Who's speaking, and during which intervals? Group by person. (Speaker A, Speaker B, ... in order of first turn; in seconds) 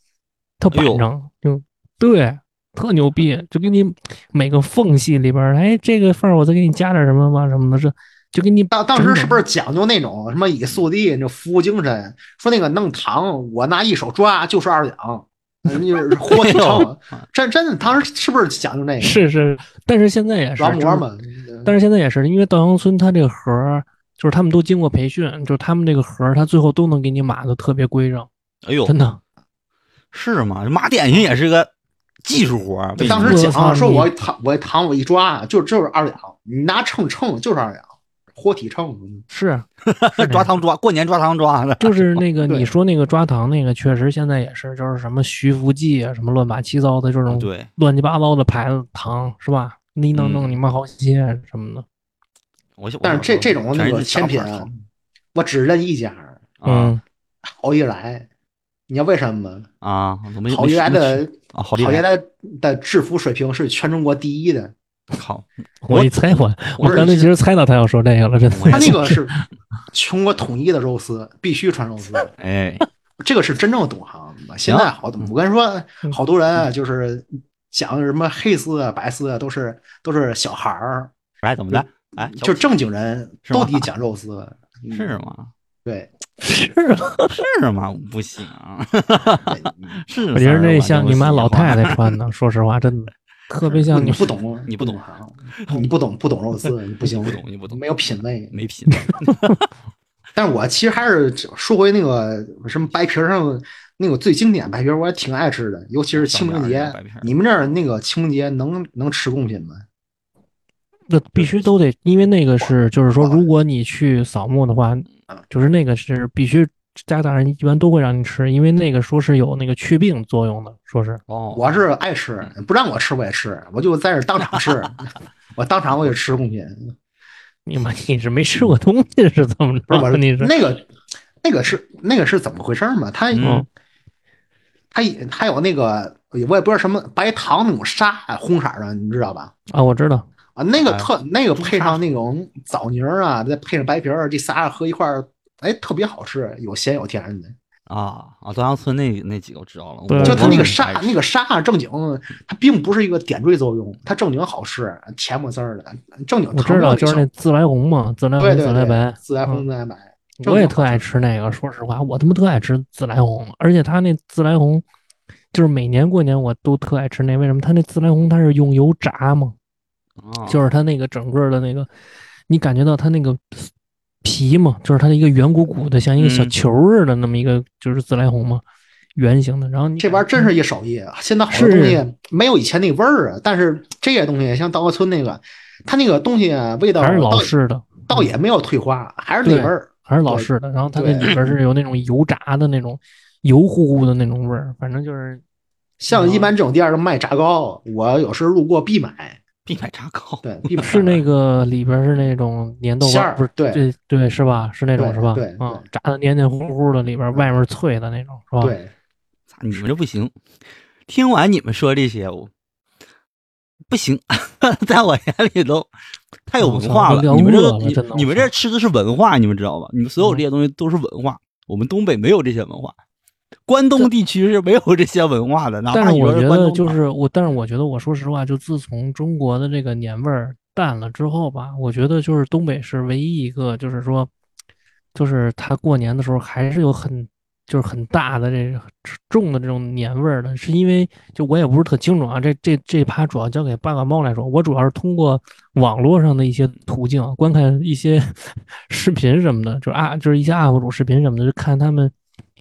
Speaker A: 0.6-9.4, 19.0-21.1, 21.6-28.3, 28.9-29.2, 33.0-34.1, 39.3-40.5, 41.8-51.9, 56.6-57.0, 65.8-69.4, 86.4-87.3, 90.3-94.3, 99.1-99.6, 111.1-121.2, 127.7-130.5, 133.4-133.7, 139.7-140.3, 150.1-150.7, 156.5-159.6, 160.4-164.8, 165.5-169.6, 170.5-171.9, 172.5-173.7, 174.2-178.6, 179.2-180.5, 181.5-182.0, 187.0-188.3, 189.4-195.4, 196.1-196.5, 200.8-208.8, 216.6-218.5, 225.9-234.3, 235.1-252.1
Speaker B: 0.7-1.0, 16.3-16.9, 28.6-28.9, 30.1-31.7, 32.2-33.5, 39.9-42.2, 47.3-47.7, 50.1-50.6, 52.8-54.7, 56.6-57.0, 59.8-62.0, 65.1-67.2, 68.5-69.0, 72.4-72.8, 74.7-75.3, 81.4-82.7, 83.5-83.9, 84.9-85.5, 87.3-92.0, 94.7-95.0, 95.6-95.9, 97.1-97.8, 98.5-99.6, 106.1-107.3, 121.3-121.8, 133.3-133.6, 140.8-141.1, 141.6-141.9, 147.9-151.2, 170.2-170.6, 176.2-176.5, 199.7-201.2, 209.5-210.3, 211.1-212.5, 213.9-215.9, 216.5-222.9, 223.7-227.0
Speaker C: 8.7-19.2, 20.6-21.7, 33.0-39.2, 42.5-42.7, 53.0-54.7, 55.4-56.4, 57.6-58.3, 58.9-59.7, 60.5-64.7, 66.8-67.3, 68.7-69.3, 69.9-72.3, 73.2-81.1, 81.7-85.2, 85.8-86.1, 89.5-90.0, 93.9-98.5, 100.3-109.8, 113.2-113.5, 121.5-126.9, 129.9-130.9, 131.4-133.6, 134.9-139.5, 140.6-147.6, 150.2-157.3, 158.4-161.1, 180.0-187.5, 188.1-191.4, 196.0-199.4, 200.4-201.2, 203.0-203.8, 205.0-205.8, 208.6-208.9